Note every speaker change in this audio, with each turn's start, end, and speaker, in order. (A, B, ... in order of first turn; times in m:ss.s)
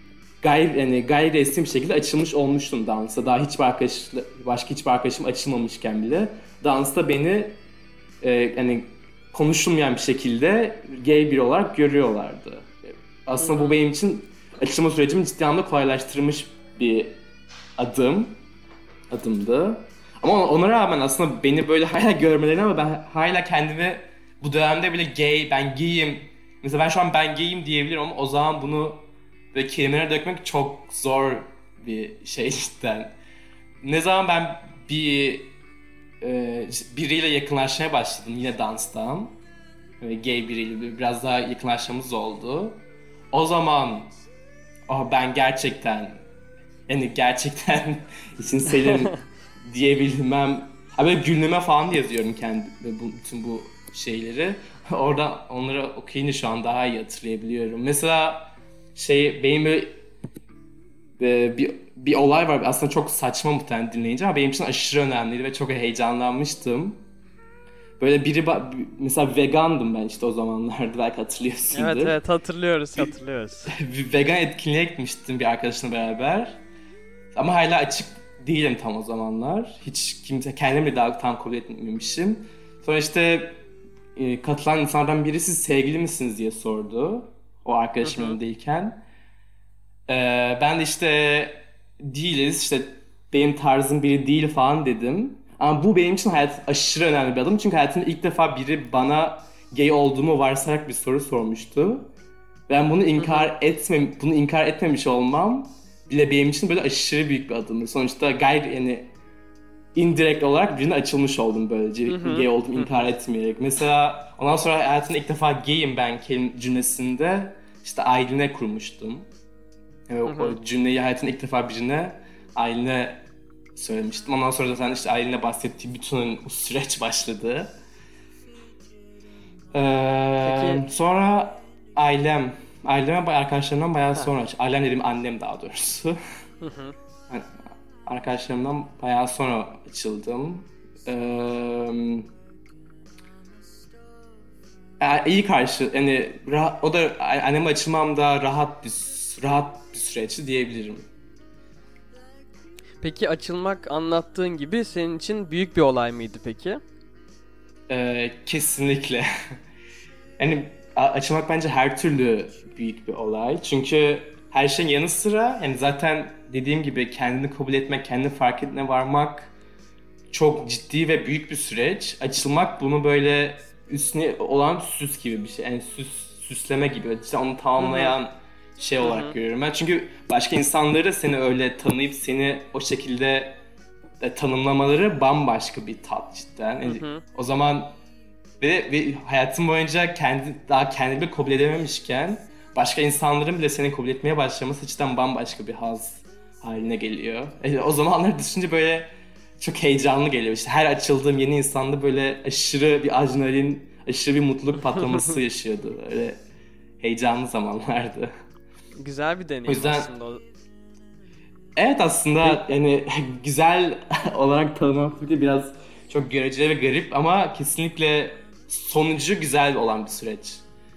0:00.4-0:07.6 A
0:08.2-0:12.7 A
0:13.2-0:17.2 A
0:13.4-0:13.8 B
0:17.8-0:18.4 A
0:19.1-0:33.1 A
0:33.8-0:35.5 A
0:36.2-0:39.4 A
0:40.0-0:44.1 A
0:44.9-0:46.2 A
0:46.9-0:59.9 A
1:01.2-1:07.0 A
1:08.0-1:12.2 A
1:11.7-1:13.7 B
1:13.7-1:16.6 A
1:17.3-1:23.6 A
1:24.2-1:29.0 A
1:28.0-1:28.4 B
1:30.1-1:42.1 A
1:42.7-1:49.1 A
1:43.2-1:43.5 B
1:49.9-1:59.3 A
1:52.1-1:53.0 B
2:00.1-2:03.2 A
2:00.2-2:00.6 B
2:03.7-2:07.7 A
2:09.7-2:16.2 A
2:10.4-2:10.8 B
2:16.6-2:16.9 B
2:18.0-2:22.3 A
2:25.0-2:31.0 A
2:33.0-2:36.8 B
2:37.9-2:39.2 A
2:40.4-2:49.5 A
2:50.3-3:03.6 A
2:57.8-2:58.2 B
2:59.0-2:59.4 B
3:04.2-3:08.0 A
3:06.8-3:07.2 B
3:08.6-3:26.4 A
3:24.9-3:25.3 B
3:27.0-3:28.3 A
3:29.0-3:30.4 B
3:29.6-3:30.1 A
3:31.8-3:40.6 A